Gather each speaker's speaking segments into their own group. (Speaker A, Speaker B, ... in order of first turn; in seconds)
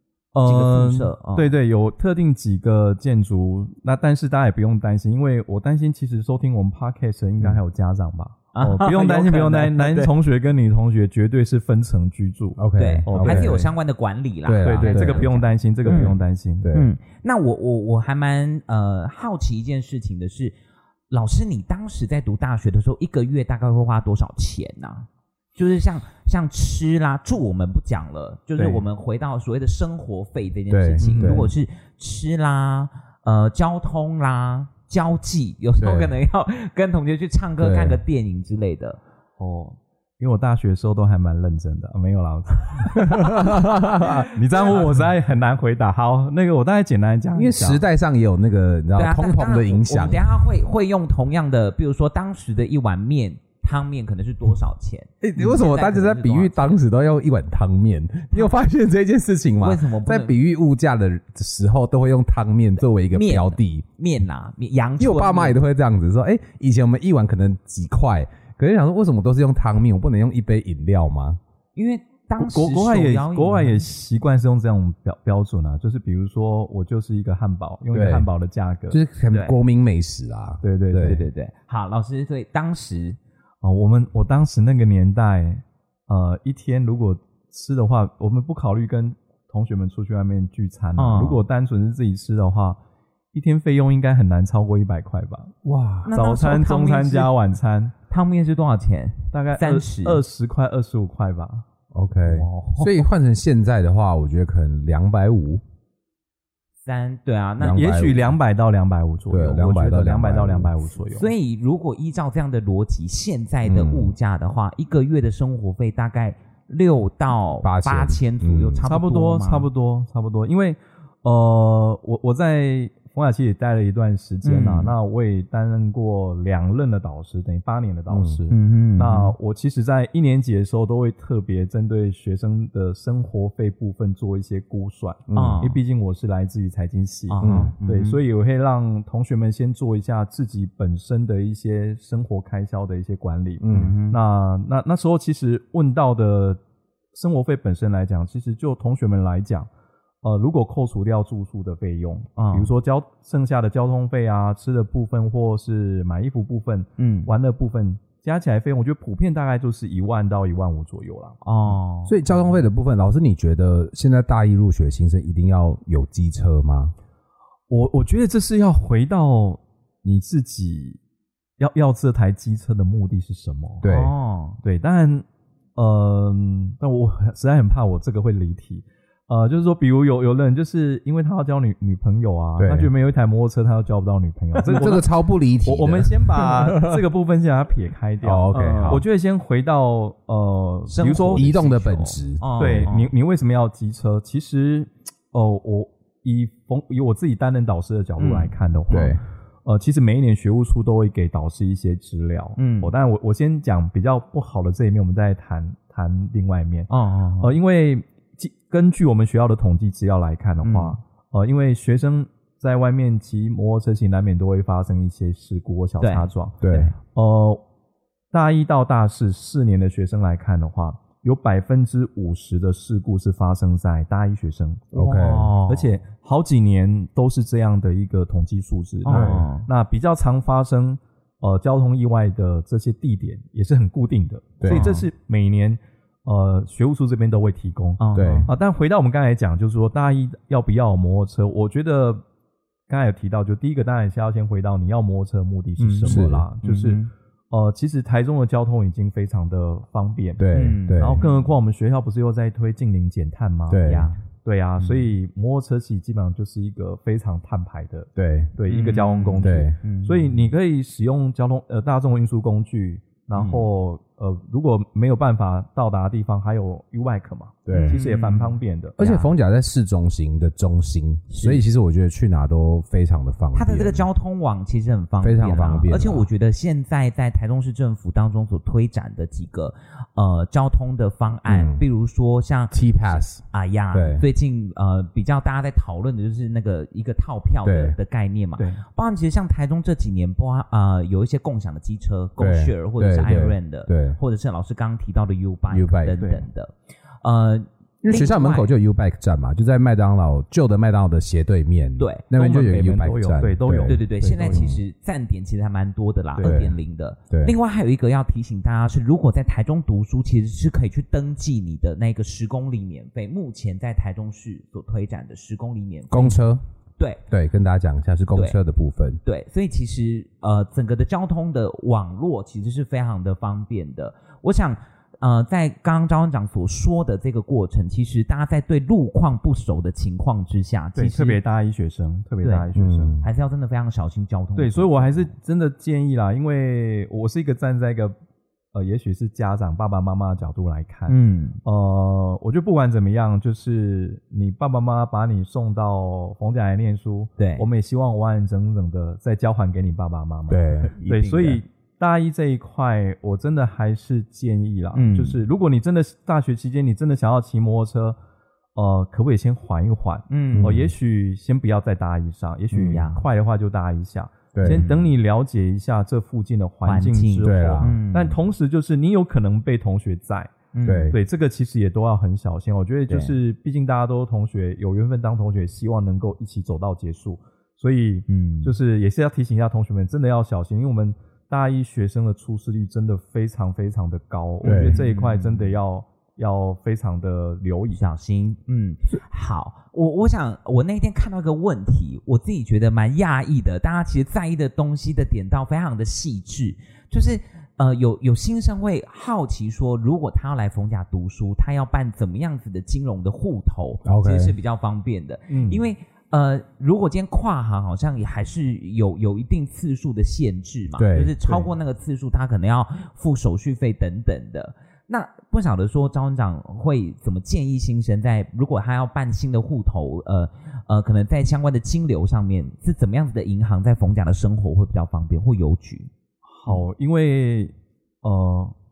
Speaker A: 0.3-13.7, 14.6-16.7, 31.0-31.5, 39.4-43.4, 44.3-47.8, 72.4-79.0, 80.6-81.2, 83.6-92.8, 93.3-95.5, 96.1-97.9, 99.3-101.6, 102.3-102.9, 107.6-111.3, 118.8-146.6, 147.1-149.7, 150.2-161.4, 167.7-171.0, 171.6-173.8, 174.6-175.2, 175.8-185.1, 185.6-191.6, 192.6-206.9, 207.4-217.6, 218.3-224.9, 225.7-242.2, 242.9-250.4, 251.0-253.8, 254.4-269.0, 288.6-288.8, 296.2-296.4, 302.3-304.7, 330.9-333.2, 334.6-338.2, 338.7-358.2, 358.7-370.6, 371.1-388.0, 405.5-405.8, 426.4-428.7
Speaker B: 0.4-1.5, 8.5-10.1, 12.8-16.2, 16.7-20.5, 21.1-39.0, 49.0-56.8, 59.6-60.4, 63.1-65.6, 71.7-73.8, 79.3-79.5, 81.0-83.2, 91.0-91.4, 96.0-97.3, 98.1-100.2, 106.8-107.8, 111.1-119.7, 124.4-124.9, 128.5-129.3, 135.3-135.8, 137.3-138.2, 143.7-144.2, 152.4-152.7, 157.0-157.3, 161.4-162.2, 173.8-174.6, 188.5-189.0, 190.9-193.1, 198.2-198.5, 202.6-202.9, 206.9-207.5, 210.6-211.0, 216.0-216.9, 224.9-225.9, 229.0-229.7, 234.7-235.1, 238.0-238.5, 245.8-247.1, 250.5-251.5, 253.8-254.2, 254.8-255.1, 258.7-260.4, 263.3-263.6, 267.7-269.3, 271.3-271.6, 273.5-296.7, 297.2-298.7, 302.0-302.2, 303.8-316.4, 319.2-331.4, 333.2-335.3, 341.1-341.6, 347.4-347.6, 351.0-351.6, 354.9-355.4, 360.3-360.8, 362.7-363.2, 364.6-365.1, 366.8-368.4, 370.7-371.1, 373.1-373.3, 378.3-378.7, 384.6-385.7, 387.9-426.1
Speaker C: 12.6-13.6, 14.4-15.3, 15.8-16.9, 30.7-31.5, 35.8-36.1, 37.6-38.0, 43.1-44.3, 47.3-50.2, 55.2-63.8, 65.0-71.4, 77.9-78.3, 78.9-81.2, 95.6-96.1, 101.9-105.6, 107.6-108.3, 109.3-110.7, 113.7-114.1, 117.6-118.8, 128.1-128.4, 135.3-135.6, 137.4-137.7, 143.6-143.9, 162.1-166.9, 173.8-174.1, 182.6-182.9, 184.6-187.0, 188.2-189.0, 191.3-192.9, 198.9-199.2, 216.6-216.9, 224.9-225.5, 229.1-229.4, 234.6-234.9, 238.2-238.5, 246.0-246.4, 250.4-251.2, 253.7-254.1, 258.2-258.5, 259.4-259.8, 267.6-268.0, 269.0-274.0, 275.2-276.3, 281.5-281.8, 282.7-284.2, 287.6-288.0, 292.4-294.2, 295.7-296.1, 298.0-304.8, 306.4-306.8, 307.3-307.5, 316.1-316.6, 317.3-319.2, 332.7-333.2, 350.5-350.9, 360.5-360.9, 364.5-364.8, 367.4-367.9, 370.8-371.2, 384.6-385.0, 404.0-404.6, 411.0-411.3